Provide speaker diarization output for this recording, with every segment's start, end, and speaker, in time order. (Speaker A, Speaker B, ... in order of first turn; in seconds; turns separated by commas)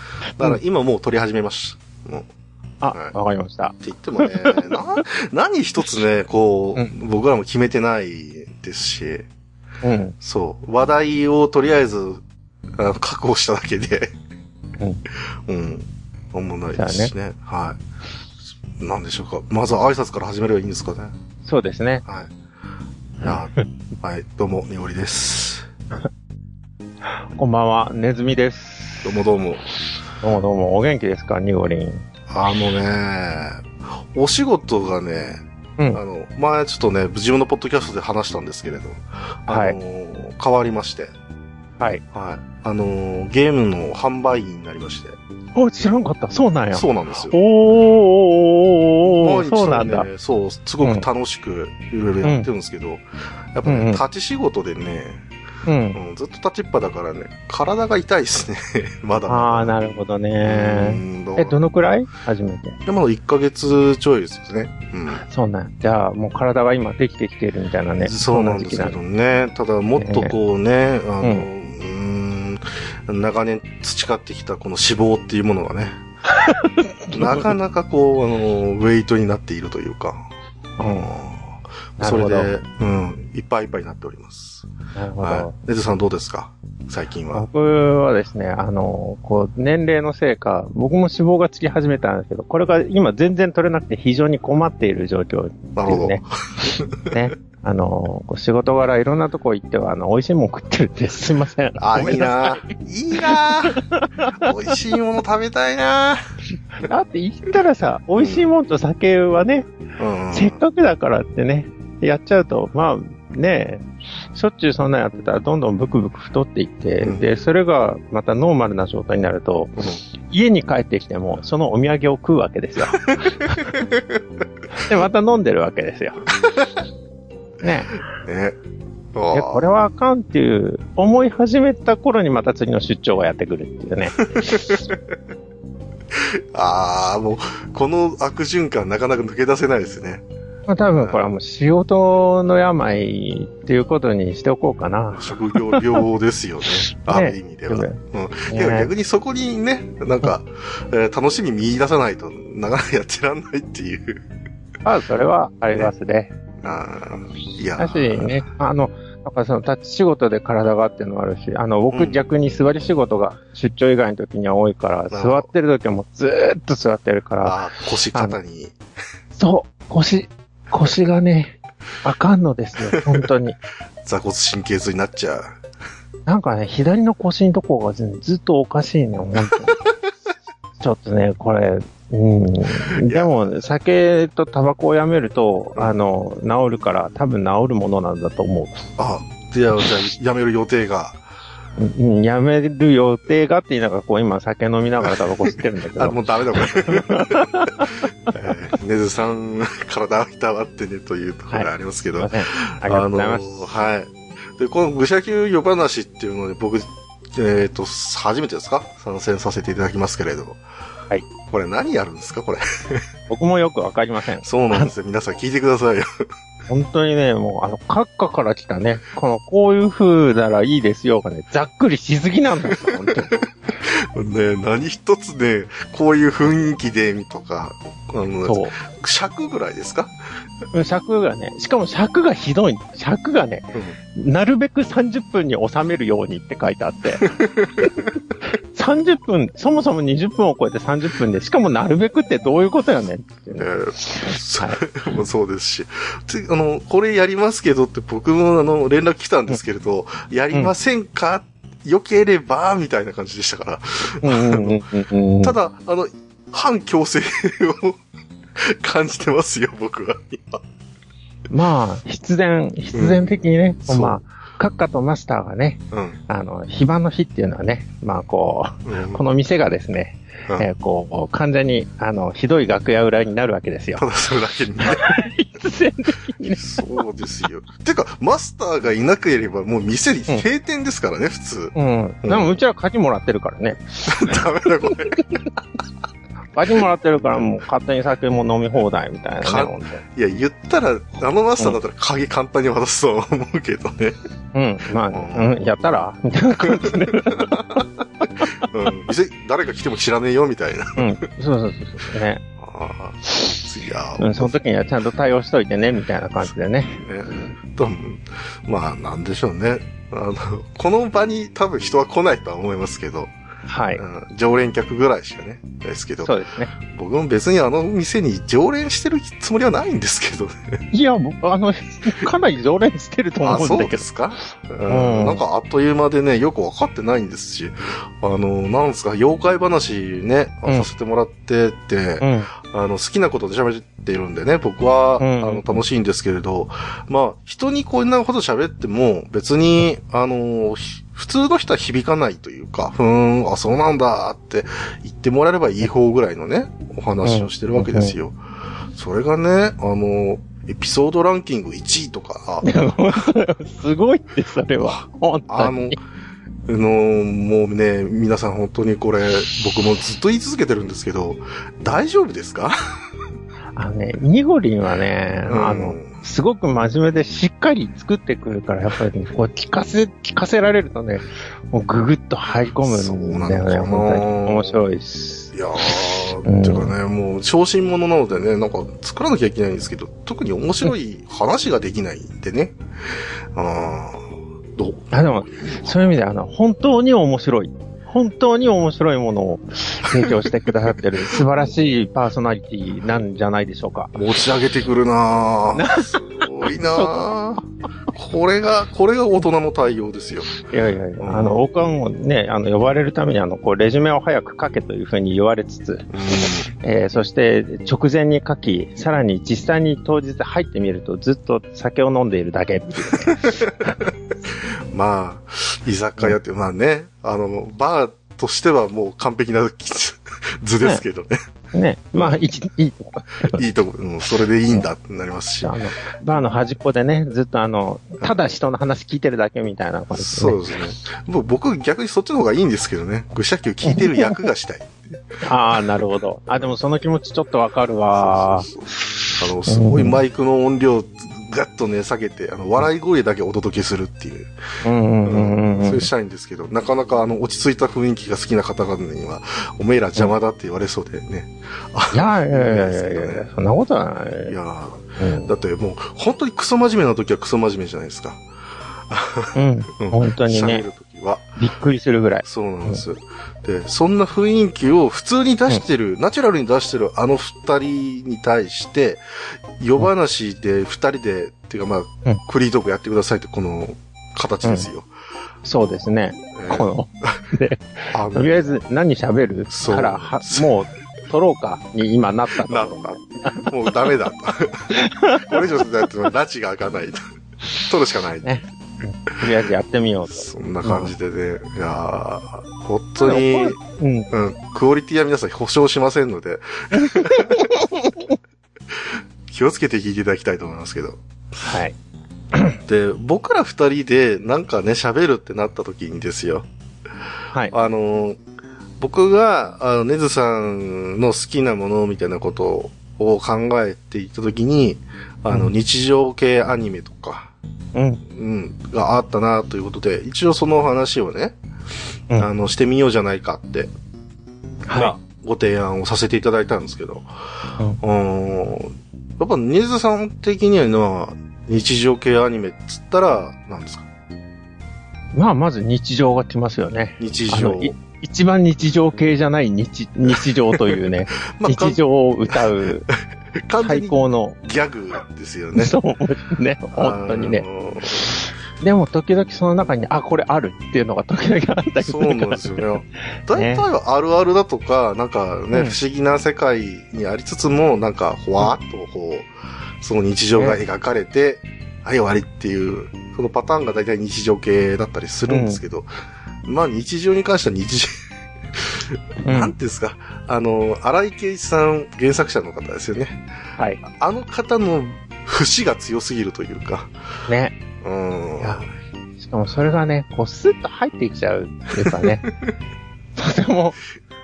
Speaker A: 0.4-2.3, Speaker B: 2.8-5.0, Speaker A: 3.8-9.3, Speaker B: 9.8-10.1, Speaker A: 10.2-12.2, Speaker A: 12.8-14.1, Speaker A: 15.5-17.8, Speaker B: 16.7-17.1, Speaker A: 18.8-21.1, Speaker B: 21.4-22.0, Speaker A: 22.1-22.3, Speaker A: 23.2-25.7, Speaker B: 23.2-23.6, Speaker B: 27.3-29.2, Speaker A: 29.0-29.6, Speaker B: 30.2-32.0, Speaker A: 32.3-35.4, Speaker A: 35.9-41.1, Speaker B: 39.5-39.8, Speaker A: 42.1-45.2, Speaker B: 45.5-50.0, Speaker A: 46.7-47.4, Speaker A: 49.2-55.2, Speaker B: 52.2-52.5, Speaker B: 53.6-54.0, Speaker B: 55.6-56.0, Speaker A: 55.9-59.7, Speaker B: 59.3-62.8, Speaker A: 60.4-61.6, Speaker A: 62.9-65.2, Speaker B: 65.2-69.0, Speaker A: 68.0-76.0, Speaker B: 70.0-70.3, Speaker B: 71.2-71.5, Speaker B: 76.3-77.5, Speaker A: 77.1-80.3, Speaker B: 80.8-81.1, Speaker A: 80.8-84.7, Speaker B: 82.0-82.5, Speaker B: 85.0-85.5, Speaker A: 85.2-87.5, Speaker B: 87.3-96.2, Speaker A: 95.8-97.1, Speaker B: 97.0-104.5, Speaker A: 101.8-103.8, Speaker A: 104.4-106.2, Speaker B: 106.8-109.7, Speaker A: 108.2-108.5, Speaker A: 110.0-110.6, Speaker B: 110.3-123.8, Speaker A: 119.8-120.0, Speaker A: 123.1-124.2, Speaker B: 124.7-126.3, Speaker B: 127.6-128.0, Speaker A: 128.1-128.6, Speaker A: 129.1-129.6, Speaker B: 129.3-134.9, Speaker A: 134.2-135.1, Speaker A: 136.1-140.2, Speaker B: 140.7-146.0, Speaker A: 141.0-141.3, Speaker A: 145.1-154.2, Speaker B: 146.9-148.9, Speaker B: 154.8-156.3, Speaker A: 156.6-158.4, Speaker B: 157.8-167.6, Speaker A: 161.9-162.2, Speaker A: 165.1-165.5, Speaker A: 167.4-168.7, Speaker B: 169.4-173.6, Speaker A: 174.0-175.6, Speaker B: 176.2-179.8, Speaker B: 180.8-188.9, Speaker A: 183.0-183.3, Speaker A: 189.0-191.2, Speaker B: 191.8-198.0, Speaker A: 195.1-210.6, Speaker B: 201.5-203.7, Speaker A: 211.5-213.0, Speaker B: 213.3-214.9, Speaker A: 214.4-216.1, Speaker B: 216.7-223.4, Speaker A: 223.8-230.1, Speaker B: 228.4-228.7, Speaker B: 230.7-244.8, Speaker A: 237.2-238.1, Speaker A: 243.5-254.8, Speaker B: 254.2-255.6, Speaker A: 255.4-258.0, Speaker A: 258.6-260.6, Speaker B: 261.5-274.0, Speaker A: 262.9-264.2, Speaker A: 265.9-266.2, Speaker A: 268.8-269.2, Speaker A: 274.0-275.1, Speaker B: 274.8-277.0, Speaker A: 276.6-282.5, Speaker B: 281.7-284.4, Speaker A: 284.1-285.4, Speaker B: 285.1-285.4, Speaker B: 286.5-290.0, Speaker A: 289.4-294.2, Speaker B: 294.5-298.6, Speaker A: 295.1-295.6, Speaker A: 296.7-301.1, Speaker B: 301.0-302.4, Speaker A: 302.6-304.6, Speaker B: 303.2-303.6, Speaker B: 304.2-307.1, Speaker A: 307.0-313.3, Speaker B: 313.7-314.0, Speaker A: 314.0-320.8, Speaker B: 316.2-316.7, Speaker B: 320.9-324.1, Speaker A: 323.4-348.4, Speaker B: 324.9-325.4, Speaker B: 332.2-332.5, Speaker B: 335.2-335.8, Speaker B: 347.2-348.1, Speaker A: 348.9-352.7, Speaker B: 352.6-356.0, Speaker A: 354.8-356.0, Speaker A: 356.7-362.7, Speaker B: 363.8-375.9, Speaker A: 365.5-366.1, Speaker A: 372.8-374.8, Speaker A: 375.5-382.7, Speaker B: 376.4-376.9, Speaker A: 383.5-385.9, Speaker B: 385.1-394.1, Speaker A: 394.1-400.5, Speaker B: 395.7-397.1, Speaker B: 400.7-406.1, Speaker A: 401.2-401.6, Speaker A: 406.1-406.7, Speaker B: 406.8-414.0, Speaker A: 413.1-421.4, Speaker B: 421.7-423.6, Speaker A: 422.1-422.4, Speaker A: 423.4-425.7, Speaker B: 425.6-430.6, Speaker A: 430.2-434.9, Speaker B: 433.8-434.3, Speaker B: 435.4-438.7, Speaker A: 438.1-444.5, Speaker B: 439.7-440.2, Speaker B: 444.8-446.1, Speaker A: 445.2-453.5, Speaker B: 452.1-454.5, Speaker A: 454.5-458.4, Speaker B: 455.2-455.5, Speaker A: 459.1-461.5, Speaker B: 459.5-460.8, Speaker B: 461.6-463.0, Speaker A: 462.4-469.2, Speaker A: 469.8-475.1, Speaker B: 474.6-474.9, Speaker B: 475.6-483.7, Speaker A: 476.5-477.4, Speaker A: 478.1-478.5, Speaker A: 479.7-480.7, Speaker A: 482.6-487.2, Speaker B: 484.9-485.8, Speaker A: 487.8-488.5, Speaker B: 488.4-491.1, Speaker A: 490.3-493.8, Speaker B: 493.2-494.3, Speaker A: 494.3-497.7, Speaker B: 496.9-498.4, Speaker A: 498.9-501.2, Speaker B: 501.6-501.9, Speaker B: 502.5-502.8, Speaker A: 502.9-506.6, Speaker A: 507.7-508.4, Speaker A: 509.0-517.5, Speaker B: 517.9-518.2, Speaker A: 518.2-521.5, Speaker A: 522.4-523.9, Speaker B: 524.9-525.1, Speaker A: 524.9-527.3, Speaker A: 528.0-534.0, Speaker B: 535.3-543.1, Speaker A: 537.2-538.0, Speaker A: 540.7-541.0, Speaker A: 541.5-543.1, Speaker A: 543.6-545.9, Speaker B: 543.8-544.6, Speaker B: 545.7-552.9, Speaker A: 547.0-548.3, Speaker A: 552.0-559.5, Speaker B: 553.5-553.8, Speaker A: 560.0-566.1, Speaker B: 565.5-565.8, Speaker A: 566.6-568.1, Speaker A: 568.7-573.4, Speaker B: 569.4-569.7, Speaker A: 574.0-577.1, Speaker B: 577.5-577.8, Speaker A: 578.0-578.9, Speaker B: 578.6-578.9, Speaker B: 579.4-582.5, Speaker A: 582.0-582.3, Speaker B: 583.4-584.0